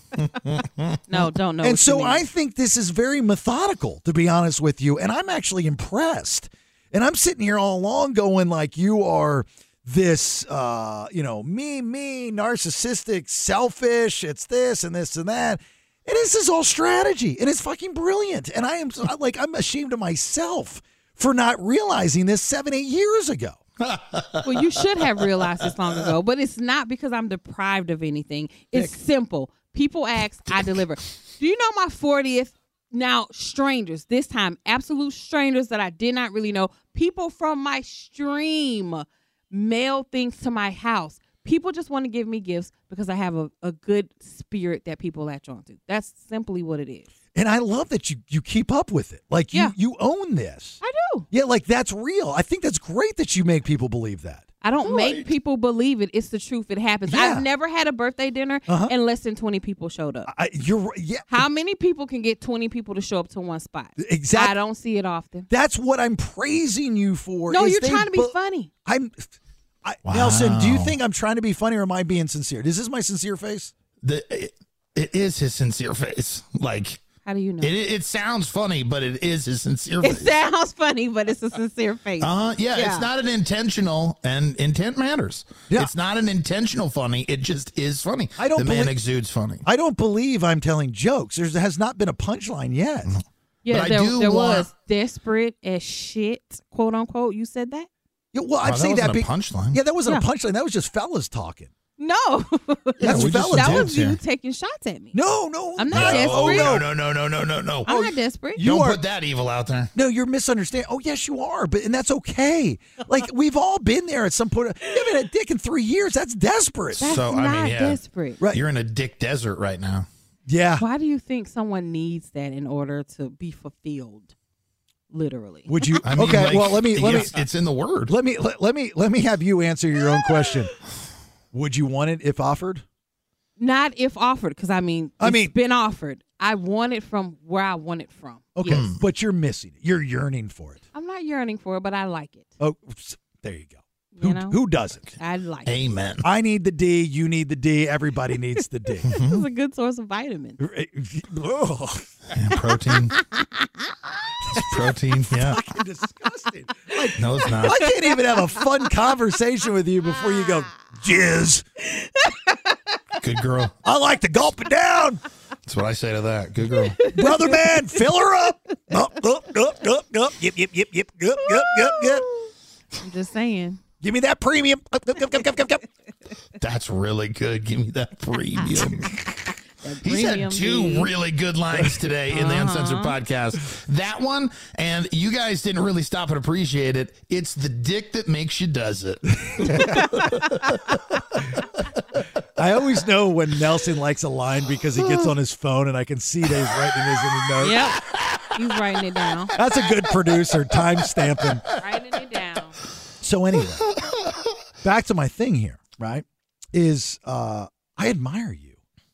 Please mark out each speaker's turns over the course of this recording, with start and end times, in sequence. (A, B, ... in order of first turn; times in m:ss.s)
0:00.4-0:00.8 A
0:01.1-0:02.2 B
0:01.1-0:23.6 C
0:23.8-0:24.6 A
0:24.4-0:47.1 B
0:47.3-0:54.4 C
0:50.8-0:51.3 B
0:54.6-1:00.3 B
0:54.8-0:55.3 A
0:57.1-0:57.4 C
0:58.7-0:58.9 C
1:00.3-1:01.5 C
1:01.3-1:05.5 B
1:04.0-1:04.6 C
1:05.5-1:08.3 C
1:07.5-1:08.7 B
1:08.8-1:13.7 C
1:10.1-1:11.0 A
1:14.0-1:17.0 A
1:17.2-1:17.7 B
1:17.6-1:20.3 A
1:20.0-1:23.1 B
1:22.2-1:29.6 A
1:28.4-1:28.9 C
1:29.6-1:33.2 C
1:33.1-1:34.7 A
1:33.6-1:37.9 B
1:38.3-1:41.7 C
1:38.6-1:39.8 A
1:42.0-1:45.2 B
1:43.0-1:43.9 C
1:43.0-1:44.2 A
1:45.1-1:46.8 C
1:45.8-1:46.8 B
1:45.9-1:48.0 A
1:47.8-1:48.6 B
1:48.6-1:49.0 C
1:48.6-1:49.9 A
1:49.9-1:57.1 C
1:57.0-1:58.4 B
1:57.0-2:00.1 A
2:00.5-2:00.8 C
2:00.8-2:04.3 B
2:05.1-2:06.0 B
2:05.7-2:07.3 C
2:06.0-2:08.1 A
2:08.1-2:10.7 C
2:11.5-2:12.8 C
2:13.6-2:18.8 B
2:15.2-2:15.5 C
2:18.6-2:20.8 C
2:18.6-2:19.0 A
2:20.9-2:22.5 B
2:22.6-2:25.0 C
2:24.1-2:24.6 B
2:25.2-2:25.7 B
2:25.6-2:26.2 A
2:26.2-2:29.1 C
2:29.0-2:30.6 B
2:29.0-2:29.4 A
2:30.6-2:32.1 C
2:32.3-2:33.2 A
2:32.9-2:33.9 B
2:34.5-2:35.6 A
2:35.2-2:41.6 C
2:37.2-2:37.8 A
2:37.5-2:38.8 B
2:41.8-2:43.2 B
2:43.2-2:43.7 A
2:43.8-2:45.2 C
2:45.6-2:47.0 A
2:46.9-2:48.0 B
2:47.1-2:52.3 C
2:51.4-2:53.8 B
2:54.0-2:55.8 C
2:56.6-2:59.4 A
2:59.8-3:01.1 B
3:00.0-3:11.0 A
3:02.3-3:03.2 B
3:09.4-3:10.1 C
3:09.8-3:10.3 B
3:12.6-3:17.8 C
3:17.6-3:18.0 B
3:18.5-3:19.5 B
3:19.5-3:21.6 C
3:19.6-3:20.1 A
3:21.8-3:22.8 B
3:23.2-3:23.9 C
3:23.8-3:24.4 A
3:24.8-3:28.8 C